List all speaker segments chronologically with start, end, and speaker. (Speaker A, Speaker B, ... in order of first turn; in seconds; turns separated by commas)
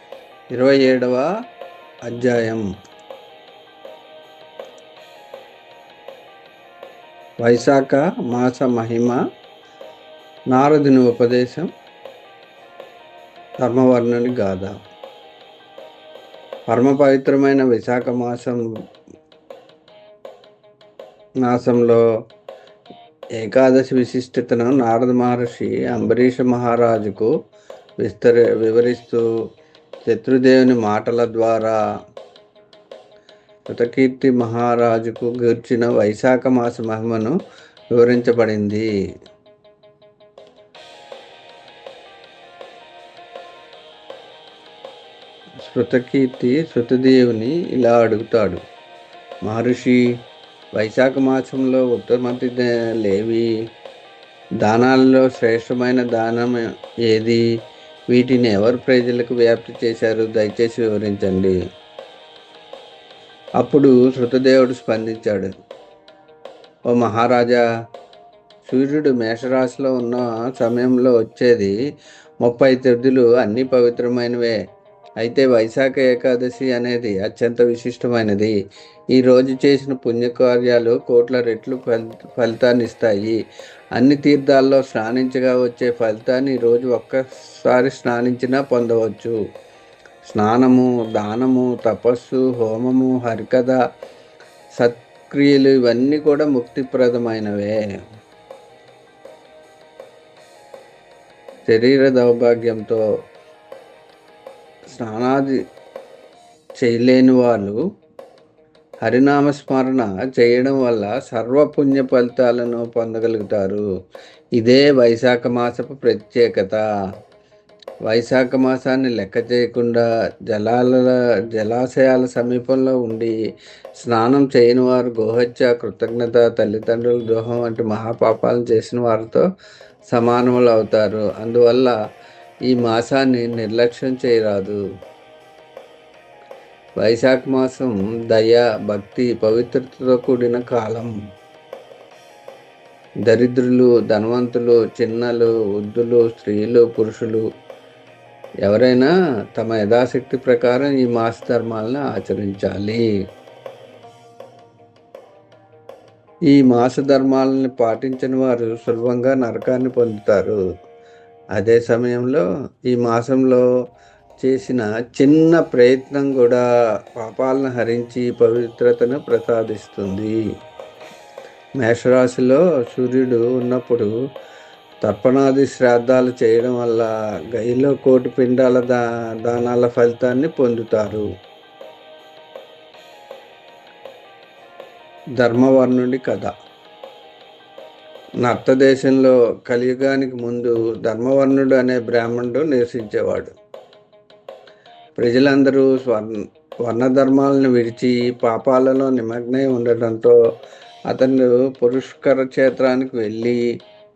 Speaker A: 0.5-1.3, Speaker A: 2.1-2.6, Speaker A: 7.4-9.2, Speaker A: 10.5-11.7, Speaker A: 13.6-14.8, Speaker A: 16.7-18.6, Speaker A: 21.4-22.0, Speaker A: 23.4-27.3, Speaker A: 28.0-29.2, Speaker A: 30.1-31.8, Speaker A: 33.7-37.4, Speaker A: 37.9-38.9, Speaker A: 45.7-48.6, Speaker A: 49.5-50.0, Speaker A: 50.8-53.5, Speaker A: 54.6-57.4, Speaker A: 58.1-61.6, Speaker A: 63.6-65.5, Speaker A: 66.9-67.6, Speaker A: 68.7-71.8, Speaker A: 72.4-74.6, Speaker A: 75.2-78.5, Speaker A: 79.2-83.4, Speaker A: 84.0-89.4, Speaker A: 90.3-93.8, Speaker A: 94.8-97.8, Speaker A: 101.7-103.0, Speaker A: 104.9-105.6, Speaker A: 106.8-107.8, Speaker A: 109.0-113.8, Speaker A: 114.6-116.8, Speaker A: 118.1-123.3, Speaker A: 124.0-129.4, Speaker A: 130.1-131.9, Speaker A: 132.7-134.8, Speaker A: 137.0-141.1, Speaker A: 143.3-147.4, Speaker A: 148.6-153.1, Speaker A: 156.5-160.6, Speaker A: 161.6-163.6, Speaker A: 164.4-166.6, Speaker A: 167.2-170.3, Speaker A: 171.8-174.1, Speaker A: 175.0-181.3, Speaker A: 185.4-186.5, Speaker A: 188.4-193.5, Speaker A: 195.2-200.4, Speaker A: 201.1-203.6